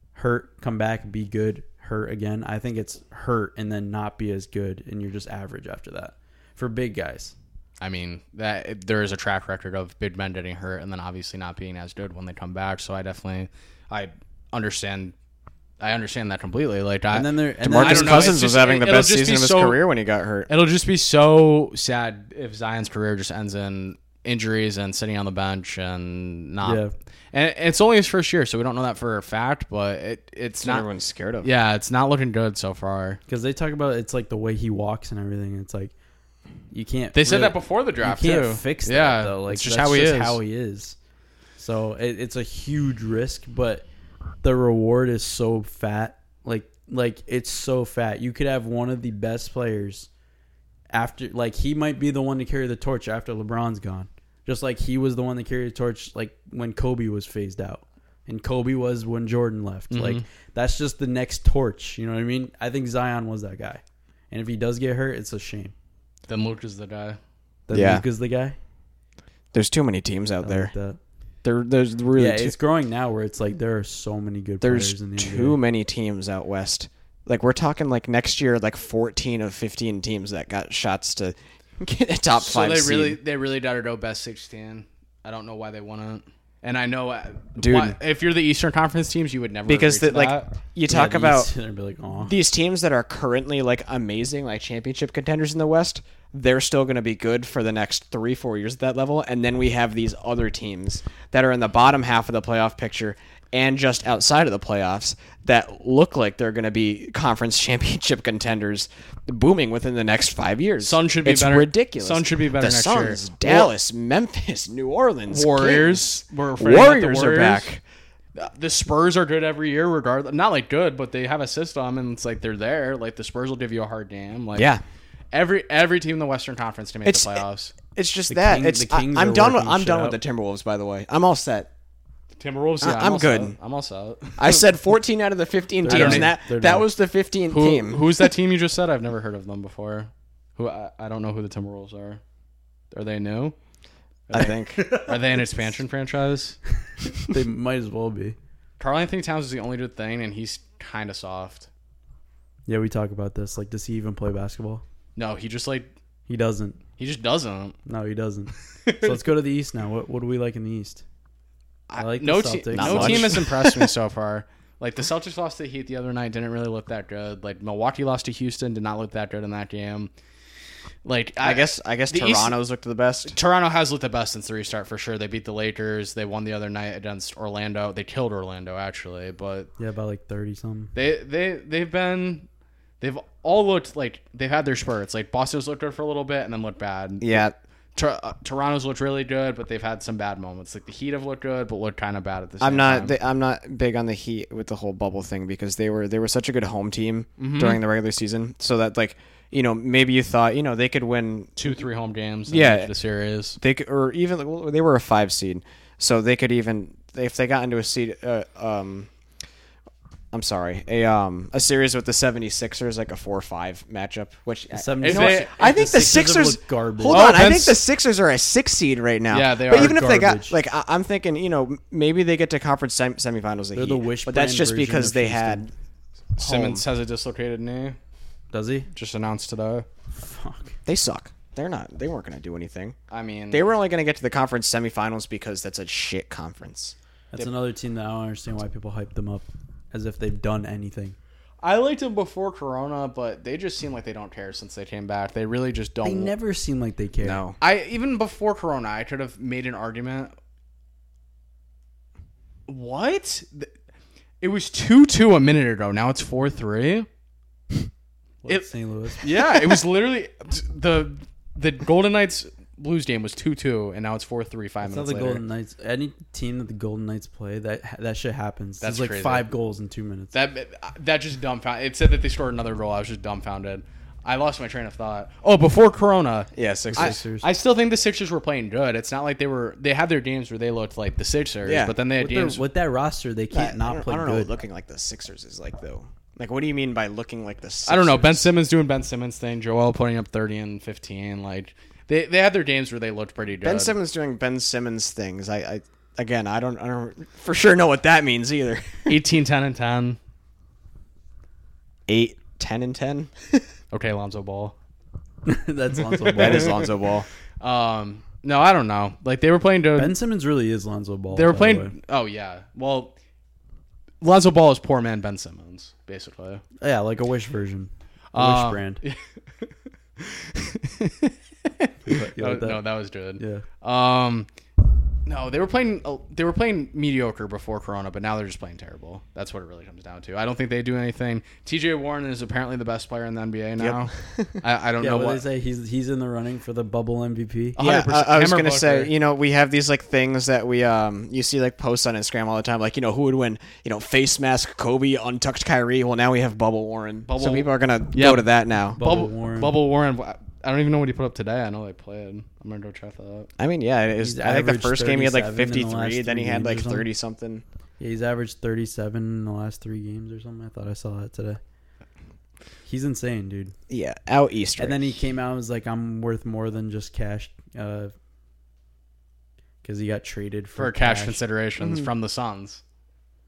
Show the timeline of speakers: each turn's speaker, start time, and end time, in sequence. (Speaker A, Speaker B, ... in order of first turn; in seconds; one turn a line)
Speaker A: 0.1-7.3
Speaker B: 7.8-15.1
Speaker B: 15.8-19.8
Speaker A: 17.1-18.3
Speaker C: 17.6-20.5
Speaker B: 20.5-30.9
Speaker A: 26.6-26.9
Speaker C: 30.6-31.5
Speaker B: 31.4-33.2
Speaker A: 33.3-35.9
Speaker A: 36.7-41.0
Speaker B: 37.1-40.4
Speaker A: 41.6-43.9
Speaker A: 44.4-50.1
Speaker A: 50.9-65.7
Speaker B: 59.9-60.2
Speaker B: 66.3-67.2
Speaker A: 67.7-68.6
Speaker C: 67.7-68.0
Speaker C: 69.5-70.7
Speaker A: 70.4-71.0
Speaker C: 71.4-72.5
Speaker A: 72.2-75.6
Speaker C: 74.6-83.2
Speaker B: 82.4-90.5
Speaker C: 87.6-88.0
Speaker C: 89.7-91.5
Speaker A: 90.9-92.4
Speaker C: 92.2-117.8
Speaker B: 110.8-113.7
Speaker B: 115.3-117.7
Speaker B: 118.4-124.7
Speaker C: 124.5-124.8
Speaker B: 125.3-127.8
Speaker C: 127.1-127.4
Speaker C: 128.0-131.7
Speaker A: 128.3-130.2
Speaker B: 132.4-134.6
Speaker C: 132.8-133.6
Speaker C: 134.4-138.1
Speaker A: 135.8-136.9
Speaker B: 135.9-136.3
Speaker B: 137.5-142.2
Speaker B: 142.9-143.6
Speaker B: 144.3-146.6
Speaker C: 144.3-144.9
Speaker A: 147.3-148.4
Speaker B: 148.8-151.7
Speaker A: 152.7-154.8
Speaker B: 155.2-155.9
Speaker A: 156.3-156.8
Speaker B: 157.0-157.8
Speaker A: 157.9-161.0
Speaker B: 158.9-159.2
Speaker B: 161.9-170.1
Speaker A: 162.0-163.4
Speaker C: 162.7-163.9
Speaker B: 171.1-172.6
Speaker C: 171.4-173.4
Speaker B: 173.3-179.7
Speaker A: 179.8-180.9
Speaker B: 180.9-182.5
Speaker B: 183.0-187.4
Speaker C: 187.2-187.6
Speaker B: 188.0-193.1
Speaker C: 192.6-201.5
Speaker B: 197.4-197.8
Speaker B: 201.6-203.6
Speaker C: 202.5-202.9
Speaker C: 203.6-209.1
Speaker C: 210.3-225.7
Speaker A: 214.7-217.2
Speaker B: 215.0-215.6
Speaker B: 217.1-217.8
Speaker B: 219.3-220.0
Speaker A: 219.7-220.6
Speaker A: 223.8-225.7
Speaker B: 226.4-228.0
Speaker C: 226.4-226.8
Speaker A: 228.5-228.9
Speaker B: 228.9-229.9
Speaker A: 230.1-230.8
Speaker C: 230.9-233.0
Speaker B: 233.1-233.7
Speaker C: 233.5-236.9
Speaker A: 237.3-241.2
Speaker B: 241.6-246.3
Speaker A: 246.0-247.4
Speaker C: 247.2-247.6
Speaker B: 247.6-250.3
Speaker B: 252.7-253.7
Speaker B: 254.4-257.1
Speaker A: 258.4-259.3
Speaker B: 259.2-265.4
Speaker A: 264.8-270.3
Speaker B: 268.8-269.5
Speaker B: 270.3-282.6
Speaker C: 276.6-277.2
Speaker A: 276.9-277.5
Speaker C: 281.6-282.0
Speaker A: 282.2-284.5
Speaker C: 283.5-288.5
Speaker B: 287.9-293.9
Speaker C: 293.6-299.2
Speaker B: 299.1-300.2
Speaker C: 302.1-303.6
Speaker B: 303.9-304.8
Speaker A: 305.4-306.8
Speaker C: 306.4-307.3
Speaker B: 306.4-306.8
Speaker B: 307.6-310.1
Speaker A: 310.0-311.9
Speaker B: 311.3-313.1
Speaker B: 314.2-316.6
Speaker A: 316.8-319.0
Speaker B: 318.3-319.2
Speaker B: 320.2-324.5
Speaker A: 322.1-322.8
Speaker A: 323.4-323.6
Speaker B: 325.3-335.4
Speaker C: 333.8-334.6
Speaker A: 335.0-337.8
Speaker B: 337.8-339.1
Speaker C: 337.8-349.0
Speaker B: 347.3-348.4
Speaker A: 349.0-349.8
Speaker B: 349.0-353.5
Speaker C: 353.6-357.6
Speaker A: 354.2-357.1
Speaker A: 358.0-361.6
Speaker A: 362.9-363.8
Speaker C: 363.9-365.2
Speaker A: 364.8-368.1
Speaker A: 369.8-371.4
Speaker B: 370.8-372.8
Speaker C: 371.8-372.1